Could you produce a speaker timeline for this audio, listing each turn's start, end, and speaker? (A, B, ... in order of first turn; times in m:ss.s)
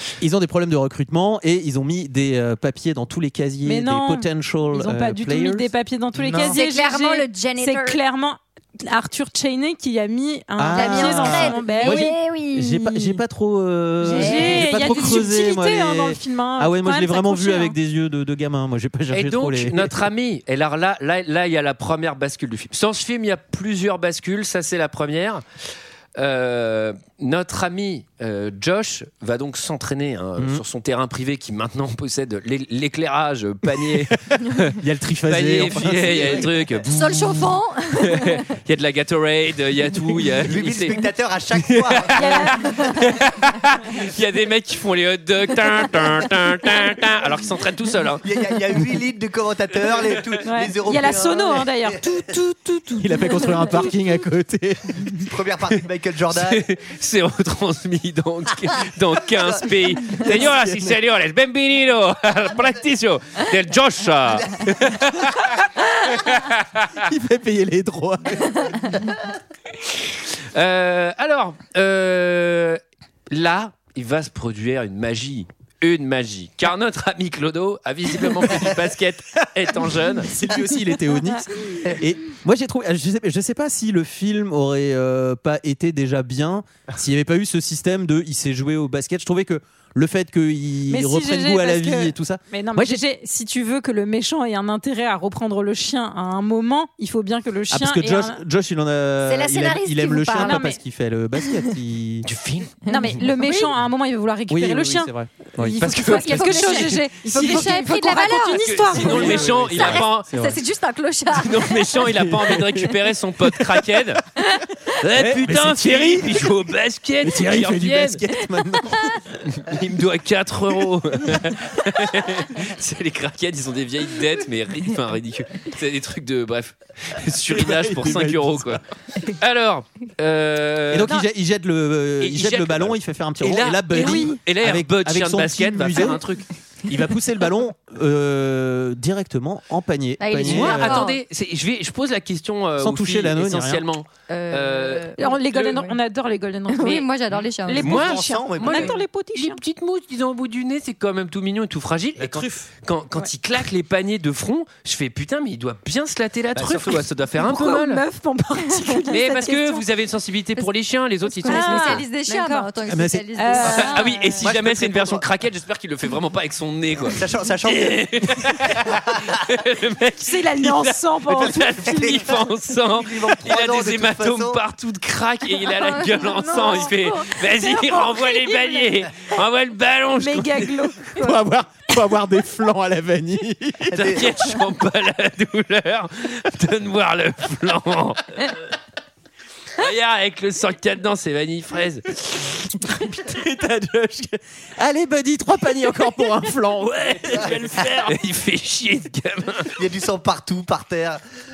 0:00.2-0:05.7 A
0:03.7-0:12.2 B
0:06.2-0:06.6 C
0:06.5-0:08.0 D
0:10.6-0:20.1 A
0:10.7-0:13.2 D
0:14.0-0:17.8 B
0:14.1-0:15.3 D
0:19.1-0:25.4 E
0:26.2-0:36.9 E
0:34.6-0:37.4 A
0:36.9-0:38.4 D
0:38.0-0:41.0 E
0:40.4-0:42.6 C
0:41.6-0:48.2 E
0:42.2-0:43.1 B
0:48.2-0:52.3 C
0:50.5-0:53.9 B
0:53.0-0:55.3 A
0:55.3-0:56.6 C
0:56.3-1:07.0 E
1:00.3-1:00.8 A
1:07.0-1:09.0 A
1:09.8-1:20.3 E
1:20.2-1:33.0 A
1:30.9-1:38.4 B
1:37.7-1:42.3 A
1:39.2-1:40.6 D
1:40.3-1:40.8 B
1:42.2-1:42.8 E
1:42.9-1:43.7 D
1:42.9-1:49.4 B
1:44.5-1:45.9 A
1:45.8-1:47.6 E
1:45.8-1:52.1 D
1:48.6-1:50.3 E
1:49.0-1:50.6 A
1:51.4-1:54.2 E
1:52.2-1:52.9 A
1:55.0-1:58.2 E
1:55.1-1:56.6 A
1:57.2-1:59.2 A
1:59.5-2:11.2 E
2:07.5-2:08.8 A
2:10.9-2:16.2 A
2:12.2-2:16.5 E
2:16.9-2:21.0 A
2:20.2-2:21.2 D
2:20.4-2:25.8 E
2:22.8-2:23.8 A
2:24.3-2:25.8 D
2:25.2-2:27.1 B
2:26.7-2:28.0 D
2:27.7-2:29.6 B
2:27.8-2:38.0 E
2:27.8-2:29.0 C
2:32.2-2:32.5 C
2:36.6-2:37.0 C
2:37.4-2:39.8 B
2:39.1-2:42.0 E
2:41.3-2:44.5 D
2:41.4-2:42.8 B
2:42.9-2:43.7 A
2:43.4-2:44.2 B
2:43.6-3:00.8 E
2:44.5-2:45.2 C
2:47.1-2:49.0 C
2:50.2-2:52.2 B
2:51.3-2:54.6 C
2:55.8-2:56.9 D
2:56.4-2:58.7 B
3:00.2-3:01.4 B
3:01.1-3:04.0 A
3:03.9-3:04.3 C
3:03.9-3:08.5 E
3:09.8-3:12.5 E
3:12.6-3:18.2 A
3:18.0-3:19.7 E
3:19.8-3:21.2 C